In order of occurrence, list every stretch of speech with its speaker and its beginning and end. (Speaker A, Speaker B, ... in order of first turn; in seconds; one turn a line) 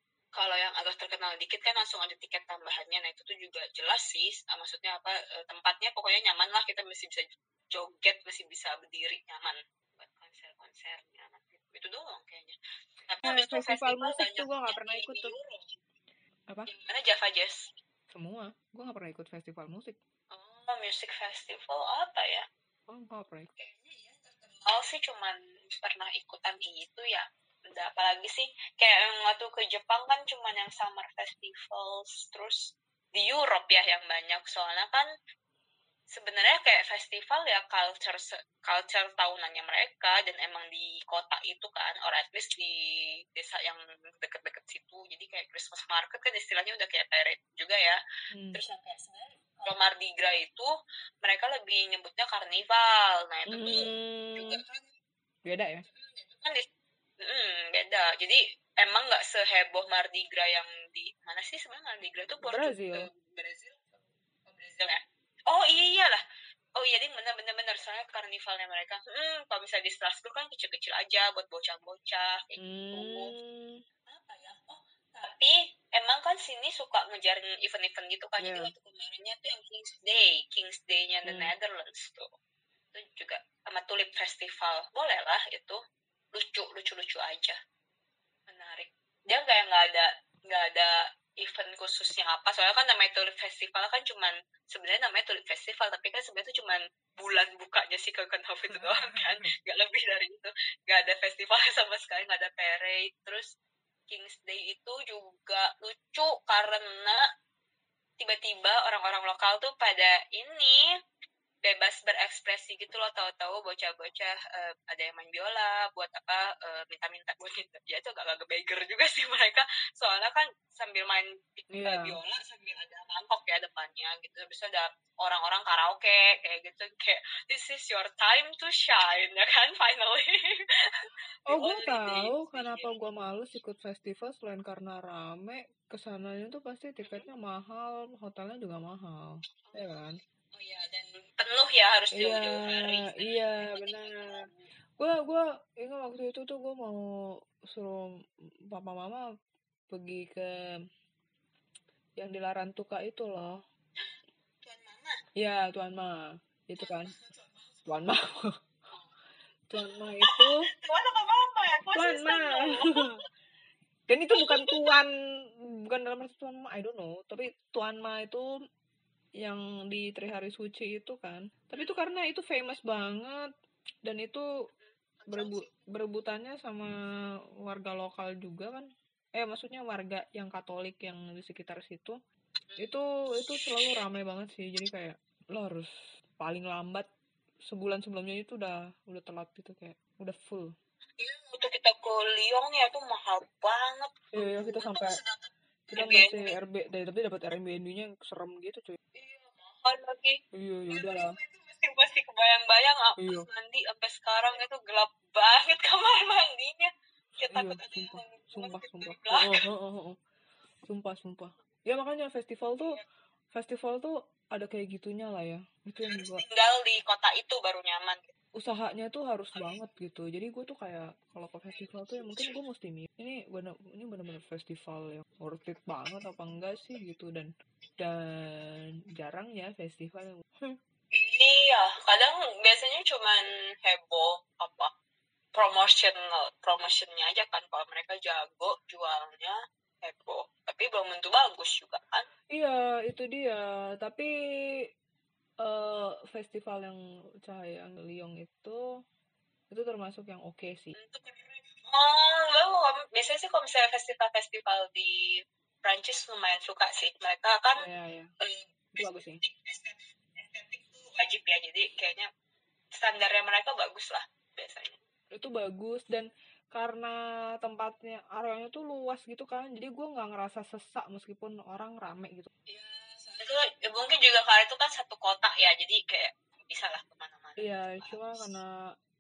Speaker A: 0.3-12.6
Speaker A: 13.1-15.7
Speaker B: 13.2-15.3
Speaker A: 16.7-17.7
Speaker B: 18.1-19.9
Speaker A: 20.3-22.4
Speaker B: 22.9-23.5
Speaker A: 23.6-35.1
Speaker A: 36.1-48.0
Speaker B: 48.3-48.6
Speaker A: 48.5-50.7
Speaker A: 51.2-54.9
Speaker B: 53.5-54.6
Speaker B: 55.5-55.8
Speaker A: 55.8-56.6
Speaker A: 57.2-66.2
Speaker B: 62.4-63.1
Speaker A: 66.7-73.3
Speaker B: 72.6-73.8
Speaker A: 74.1-82.3
Speaker B: 78.4-78.7
Speaker B: 81.2-81.5
Speaker A: 82.9-85.8
Speaker A: 86.3-87.5
Speaker A: 88.5-103.5
Speaker B: 98.7-99.5
Speaker A: 104.1-107.2
Speaker A: 108.2-110.9
Speaker A: 111.6-133.0
Speaker B: 121.7-122.2
Speaker B: 131.5-140.2
Speaker A: 137.0-137.3
Speaker A: 139.7-144.7
Speaker B: 142.1-144.4
Speaker B: 145.0-147.0
Speaker B: 147.7-148.0
Speaker B: 148.7-149.2
Speaker B: 149.9-150.5
Speaker B: 152.2-153.5
Speaker A: 154.0-155.2
Speaker B: 155.4-156.2
Speaker B: 156.7-157.1
Speaker A: 156.8-157.9
Speaker B: 157.8-158.5
Speaker B: 159.7-160.6
Speaker A: 160.2-163.2
Speaker B: 161.9-163.1
Speaker B: 164.1-165.1
Speaker A: 164.4-164.9
Speaker B: 165.8-168.4
Speaker B: 169.4-173.5
Speaker B: 174.0-174.4
Speaker A: 174.7-175.8
Speaker B: 175.3-176.9
Speaker B: 177.7-182.1
Speaker A: 182.7-184.0
Speaker B: 182.8-185.9
Speaker B: 186.4-187.1
Speaker B: 187.7-190.7
Speaker A: 191.2-196.5
Speaker B: 194.3-195.2
Speaker B: 195.9-199.0
Speaker A: 199.1-209.6
Speaker B: 200.5-201.4
Speaker B: 203.2-203.5
Speaker B: 207.5-210.2
Speaker B: 210.9-213.0
Speaker A: 212.8-213.0
Speaker B: 213.5-216.4
Speaker A: 216.0-218.3
Speaker B: 218.6-230.8
Speaker A: 221.7-222.6
Speaker A: 231.1-234.9
Speaker A: 235.5-242.2
Speaker B: 242.5-244.3
Speaker B: 245.6-248.8
Speaker B: 249.7-250.9
Speaker A: 250.9-257.9
Speaker B: 257.8-258.3
Speaker A: 258.4-262.3
Speaker B: 258.9-259.4
Speaker A: 262.9-265.0
Speaker B: 265.3-272.5
Speaker A: 272.7-278.5
Speaker B: 277.6-278.7